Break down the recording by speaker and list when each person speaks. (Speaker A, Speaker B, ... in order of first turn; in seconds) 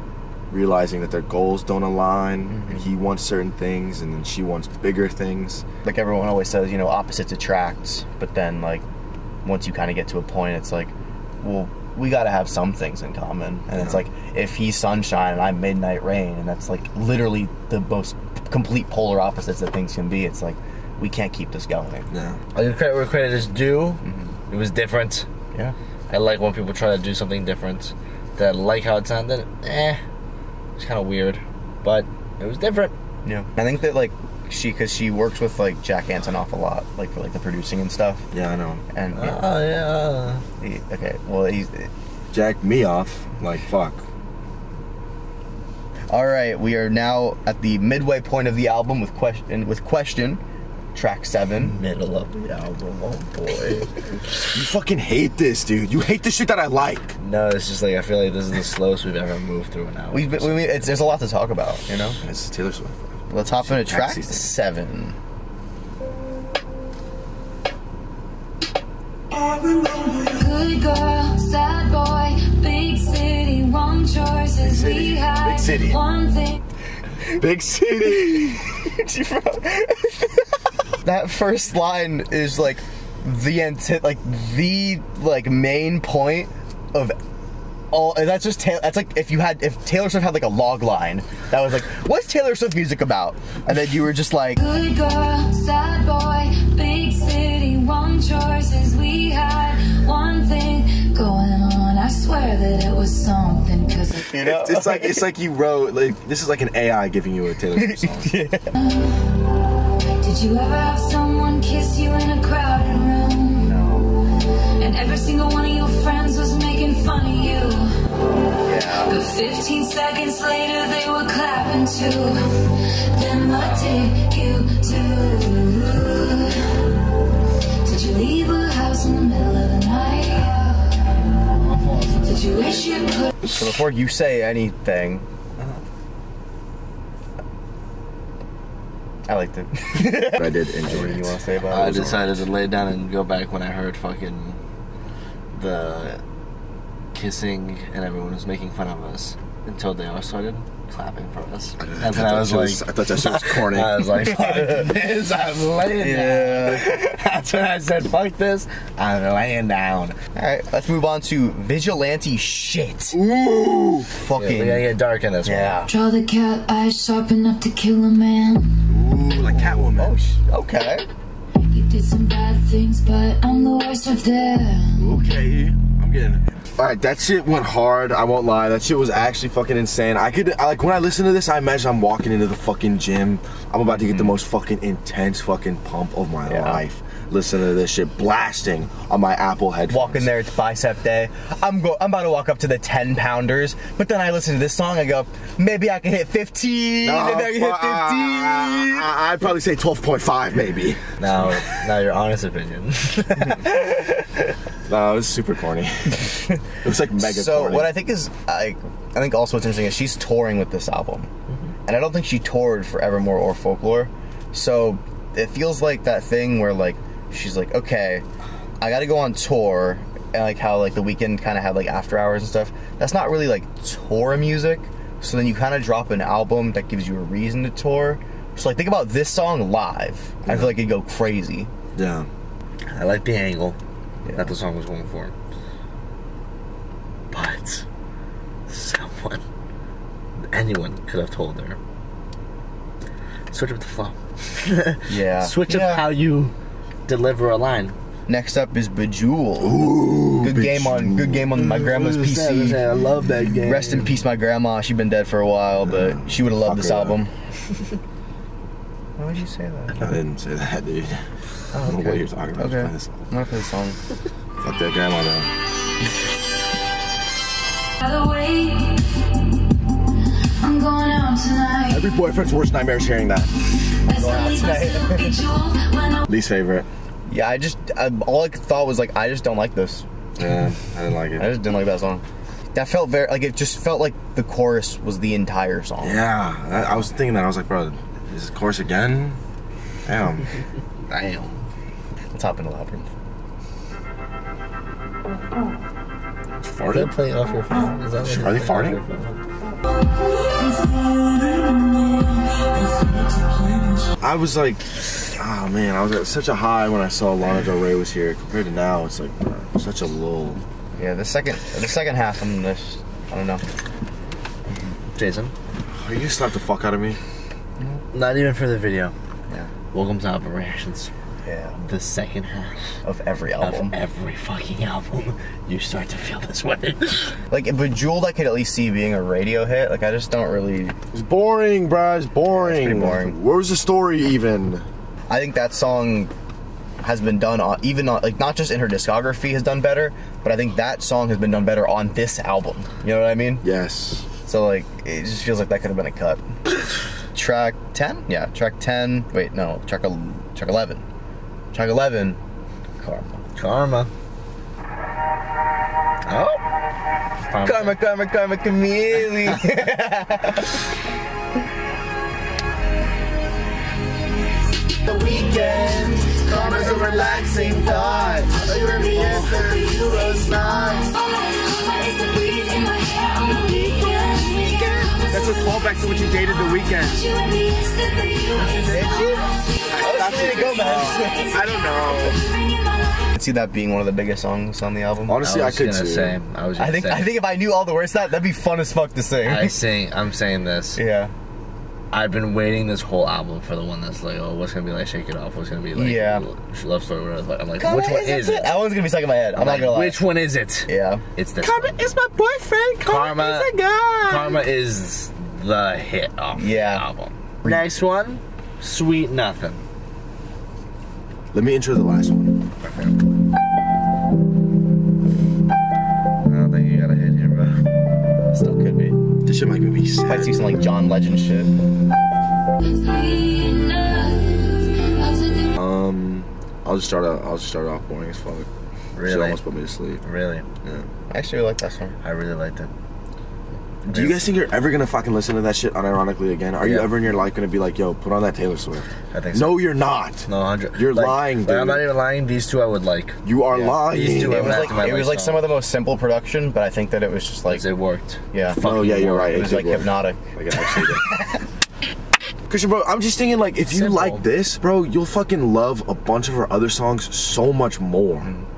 Speaker A: 0.5-5.6, 13.8-14.0, 22.1-22.4, 38.3-38.8, 42.3-44.0, 54.5-57.2, 62.2-64.5, 69.4-70.4, 74.6-76.0, 77.3-78.6, 104.3-108.4, 140.3-142.3, 151.8-154.1, 163.1-164.1, 168.9-170.1, 175.0-190.3, 197.0-201.8, 204.9-207.9, 230.4-230.8, 231.9-232.3, 249.6-251.5, 255.8-257.2, 259.9-261.2, 261.8-263.3, 264.6-265.5, 271.9-273.5, 276.3-276.9, 280.4-281.5, 286.0-289.4, 290.1-290.5, 296.6-297.1, 298.2-299.0, 304.2-310.6, 315.9-317.2, 331.1-334.8, 343.6-344.3, 375.3-377.2, 379.9-382.4, 385.3-386.4, 401.6-404.6, 411.5-412.6, 419.4-420.8, 425.8-428.7, 429.3-430.2, 430.8-431.1, 434.1-442.1, 443.4-445.0, 448.8-451.3, 452.7-458.5
Speaker B: 2.5-2.9, 5.8-8.8, 9.4-22.1, 24.0-24.3, 33.2-38.3, 38.9-39.5, 40.6-41.9, 46.1-50.4, 50.9-51.8, 60.1-62.2, 63.3-65.2, 78.2-87.2, 87.9-94.6, 104.3-105.2, 107.8-108.8, 113.5-114.1, 118.2-119.2, 133.5-135.2, 139.3-142.4, 154.4-154.8, 156.0-156.9, 160.3-163.2, 164.1-164.9, 165.4-165.9, 169.4-171.1, 184.0-184.3, 186.5-186.8, 189.9-199.1, 207.2-211.3, 211.9-218.2, 218.8-231.7, 234.2-234.6, 245.1-246.1, 248.3-249.8, 250.4-252.8, 253.6-257.3, 259.2-260.1, 261.9-264.0, 274.1-275.4, 277.3-280.1, 281.4-282.2, 282.7-286.2, 292.3-293.1, 311.0-313.6, 321.4-321.8, 323.1-323.9, 327.5-331.0, 332.5-333.4, 335.3-336.3, 337.0-343.6, 344.4-346.4, 347.3-351.0, 351.7-352.4, 353.0-353.4, 357.6-360.8, 365.1-371.1, 374.5-375.1, 378.8-381.6, 383.3-385.4, 386.8-389.8, 391.0-391.3, 395.9-396.4, 397.8-400.2, 400.9-401.2, 406.6-407.1, 418.5-419.2, 420.3-421.8, 431.3-432.2, 444.5-447.9, 448.5-448.8, 449.5-451.6, 458.4-458.7
Speaker C: 22.6-25.3, 26.1-30.0, 30.8-32.9, 39.1-40.4, 51.6-54.5, 57.2-60.9, 131.5-132.8, 141.7-144.6, 145.5-146.2, 147.1-160.2, 164.3-165.9, 201.2-203.7, 232.9-233.8, 234.3-235.3, 237.3-237.9, 238.7-239.4, 240.5-241.8, 243.5-246.5, 247.1-247.9, 251.6-254.1, 261.7-262.2, 291.1-291.6, 296.9-299.4, 315.1-315.5, 318.1-319.1, 319.9-321.1, 321.8-323.0, 323.6-327.4, 353.6-354.1, 356.3-356.6, 357.5-358.0, 385.4-387.3, 389.4-391.0, 392.1-398.8, 399.5-402.0, 403.0-403.7, 404.2-409.8, 412.8-413.2, 416.5-417.8, 429.1-429.6, 430.2-430.7, 432.2-432.9, 434.1-434.5, 436.8-437.1, 439.3-439.8, 440.5-445.6, 447.7-449.7, 453.9-454.4
Speaker D: 70.3-76.6, 94.6-104.3, 108.8-109.4, 110.2-113.7, 114.8-118.1, 119.0-126.9, 127.8-131.1, 132.2-133.3, 165.9-168.8, 171.6-175.1, 268.0-269.3, 270.6-272.1, 274.1-276.3, 300.6-304.0, 368.8-383.3, 422.8-425.7